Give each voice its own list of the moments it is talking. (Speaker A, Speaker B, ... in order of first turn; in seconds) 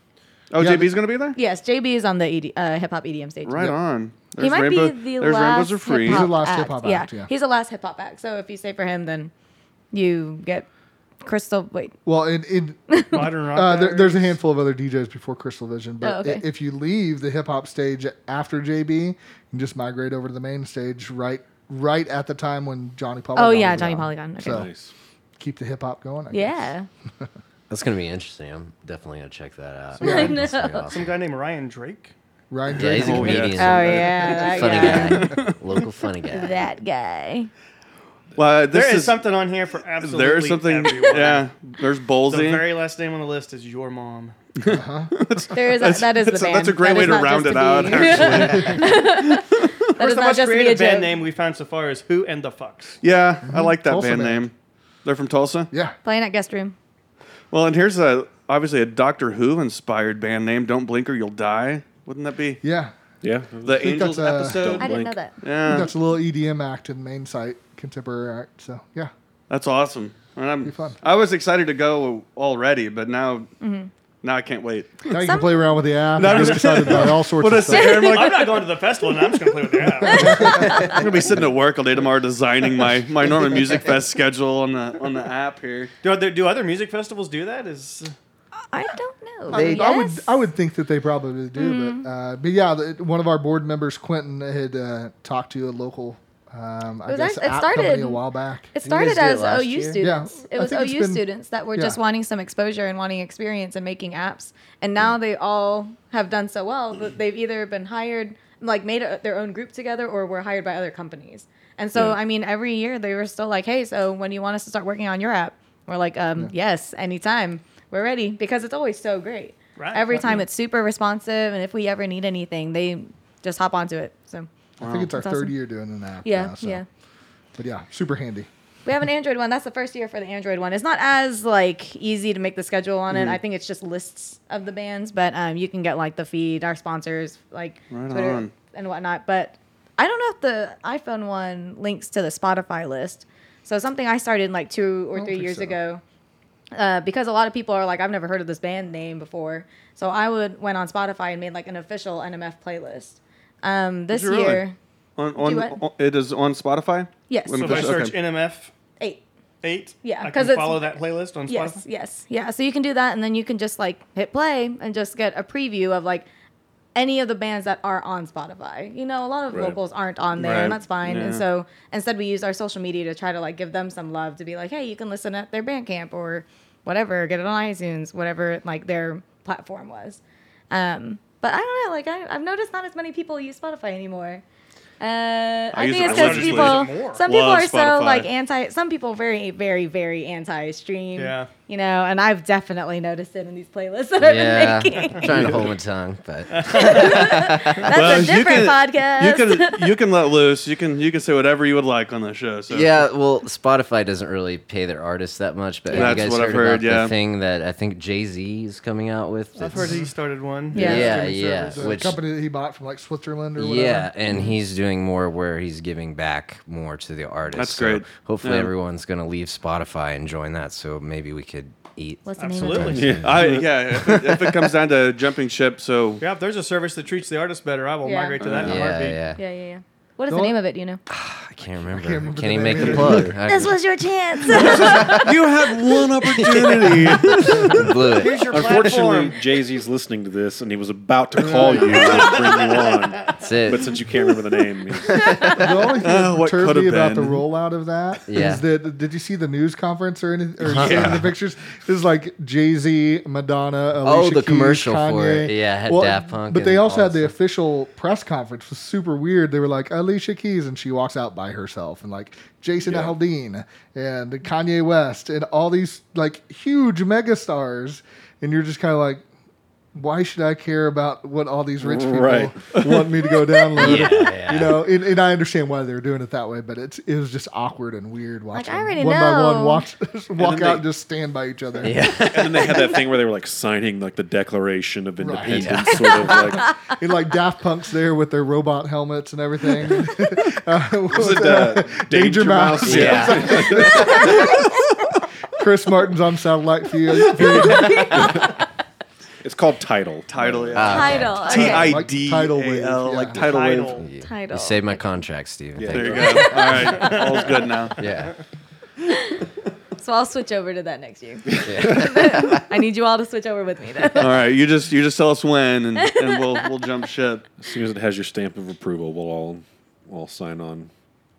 Speaker A: 0.5-1.4, 3.5-6.3, 32.8-35.5, 38.4-39.2, 40.0-42.7, 44.6-49.7, 53.0-54.5, 55.0-55.7, 57.5-62.6, 63.6-65.9, 69.5-73.5, 74.2-75.1, 76.2-78.6, 80.5-85.9, 124.8-125.1, 133.1-133.4, 137.9-138.5, 154.1-154.6, 155.2-158.2, 170.4-171.4, 185.7-188.3, 197.9-203.1, 205.9-207.1, 217.6-218.7, 223.2-226.2, 235.0-237.8, 246.0-247.4, 300.3-304.0, 305.9-308.1, 314.2-317.4
Speaker B: 0.6-0.9, 6.0-7.3, 12.1-24.7, 25.4-27.3, 30.0-30.4, 32.5-33.5, 44.7-45.1, 48.2-48.8, 53.4-54.5, 55.7-56.0, 62.6-62.9, 63.8-64.7, 65.7-69.1, 70.6-71.0, 75.1-78.1, 80.1-80.8, 89.5-98.7, 100.0-102.0, 124.8-126.8, 127.6-128.5, 145.1-145.8, 209.6-210.1, 210.7-214.1, 230.3-230.6, 231.8-233.3, 241.4-242.2, 245.6-269.2, 269.9-282.1, 285.2-285.8, 286.8-294.6, 295.6-298.2, 301.5-303.5
Speaker C: 1.4-3.8, 4.4-9.3, 9.9-10.7, 11.2-11.9, 12.9-13.3, 16.0-16.4, 23.4-24.7, 26.3-26.9, 30.0-30.9, 33.6-35.3, 36.3-37.5, 45.5-51.1, 56.0-56.8, 64.8-65.3, 73.6-73.9, 75.1-75.8, 77.7-78.3, 80.1-80.9, 88.7-90.4, 91.6-92.1, 97.1-98.2, 98.7-124.5, 125.2-125.5, 126.2-126.9, 128.8-146.0, 146.7-154.8, 155.4-155.8, 157.3-157.9, 160.0-160.9, 161.5-166.3, 166.9-180.2, 180.7-184.4, 185.0-195.3, 196.7-200.0, 205.9-206.2, 210.7-211.1, 222.2-223.0, 228.0-228.4, 229.4-231.0, 233.5-235.2, 278.5-279.9, 297.9-298.1, 300.9-301.9, 304.2-305.0, 310.0-314.4, 316.0-316.6
Speaker D: 13.1-14.3, 30.0-32.1, 34.1-35.0, 38.7-41.5, 42.3-44.4, 50.0-53.0, 76.3-76.6, 78.1-80.7, 86.0-88.1, 119.8-120.2, 157.6-158.7, 159.6-161.8, 186.0-187.2, 191.2-191.5, 195.0-195.5, 196.5-197.3, 209.6-211.8, 222.4-223.2, 226.2-229.3, 238.2-239.4, 241.8-243.4, 303.4-304.1
Speaker E: 24.4-24.9, 63.2-65.2, 169.5-169.8, 222.9-224.5, 232.7-233.2, 238.5-245.4, 250.7-251.2, 262.9-263.1, 271.8-273.2, 273.8-274.1, 282.2-286.8, 291.1-294.6, 297.6-298.5, 299.4-301.4, 305.8-306.8, 311.5-312.2, 317.6-320.9
Speaker F: 27.7-31.1, 32.7-36.6, 89.5-89.9, 98.8-100.0, 194.2-197.9, 202.7-210.0, 210.7-212.2, 213.6-223.4, 228.5-229.4, 231.1-233.8, 234.4-235.3, 236.6-238.4, 243.4-244.1, 245.2-245.6, 248.3-248.6, 250.7-251.3, 254.0-257.3, 273.8-274.9, 281.8-282.9, 285.4-286.4, 292.8-294.4, 300.8-301.8, 304.0-307.2, 308.0-308.4, 311.6-312.6